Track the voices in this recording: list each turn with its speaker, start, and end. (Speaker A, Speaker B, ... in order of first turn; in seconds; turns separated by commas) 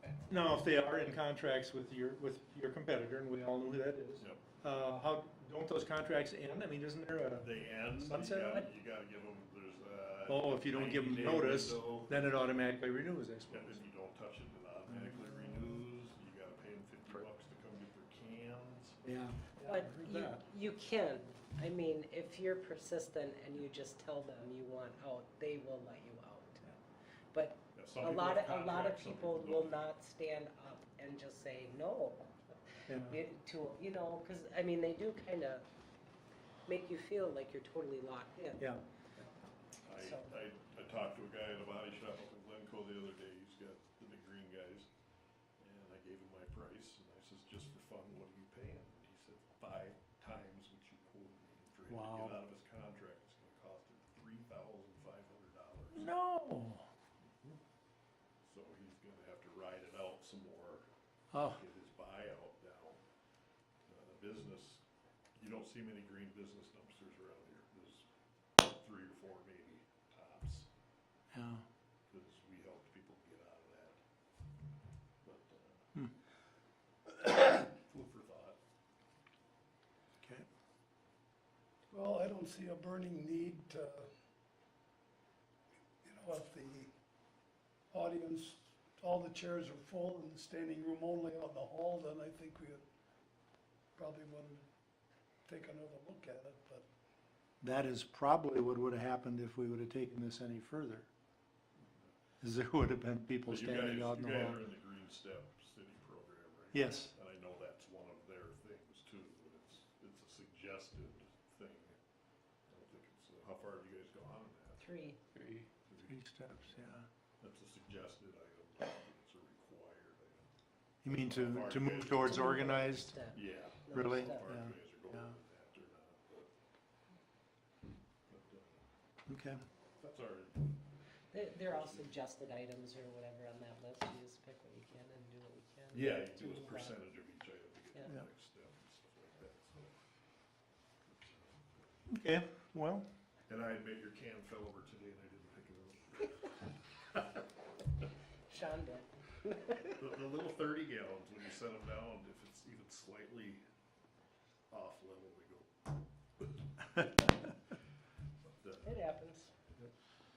Speaker A: 0.3-8.7, Speaker B: 7.4-12.3, Speaker A: 10.3-13.8, Speaker B: 13.5-19.0, Speaker A: 19.0-20.4, Speaker C: 19.6-26.8, Speaker C: 27.3-35.7, Speaker B: 27.8-29.8, Speaker A: 32.9-33.2, Speaker C: 36.7-38.6, Speaker B: 39.9-44.9, Speaker C: 40.0-40.3, Speaker B: 45.6-56.1, Speaker A: 51.9-52.4, Speaker A: 56.0-56.9, Speaker B: 57.2-57.6, Speaker B: 58.4-60.9, Speaker A: 61.3-61.6, Speaker B: 61.4-63.0, Speaker B: 63.9-64.8, Speaker B: 65.4-68.0, Speaker B: 68.6-70.7, Speaker A: 71.3-71.6, Speaker B: 72.1-74.0, Speaker B: 75.2-75.9, Speaker B: 77.2-78.6, Speaker D: 81.9-84.1, Speaker D: 86.0-86.9, Speaker D: 87.9-92.8, Speaker D: 94.0-94.6, Speaker D: 95.5-96.8, Speaker A: 97.6-101.1, Speaker A: 102.4-104.7, Speaker B: 103.5-112.0, Speaker A: 106.7-107.1, Speaker B: 112.7-114.9, Speaker C: 114.8-115.2, Speaker B: 115.8-116.8, Speaker A: 116.1-117.1, Speaker B: 117.4-120.5, Speaker A: 121.0-123.2, Speaker B: 121.1-122.7, Speaker C: 122.2-124.5, Speaker B: 123.3-126.5, Speaker A: 123.9-125.3, Speaker B: 128.3-128.8, Speaker A: 129.3-129.6, Speaker B: 130.0-130.7, Speaker C: 131.3-137.0, Speaker B: 131.7-132.1, Speaker B: 135.9-139.9, Speaker B: 141.1-141.9, Speaker A: 142.1-143.1, Speaker B: 143.5-146.7, Speaker C: 148.5-149.9, Speaker B: 149.8-153.6, Speaker B: 154.7-155.7, Speaker B: 158.6-159.0, Speaker C: 158.8-159.5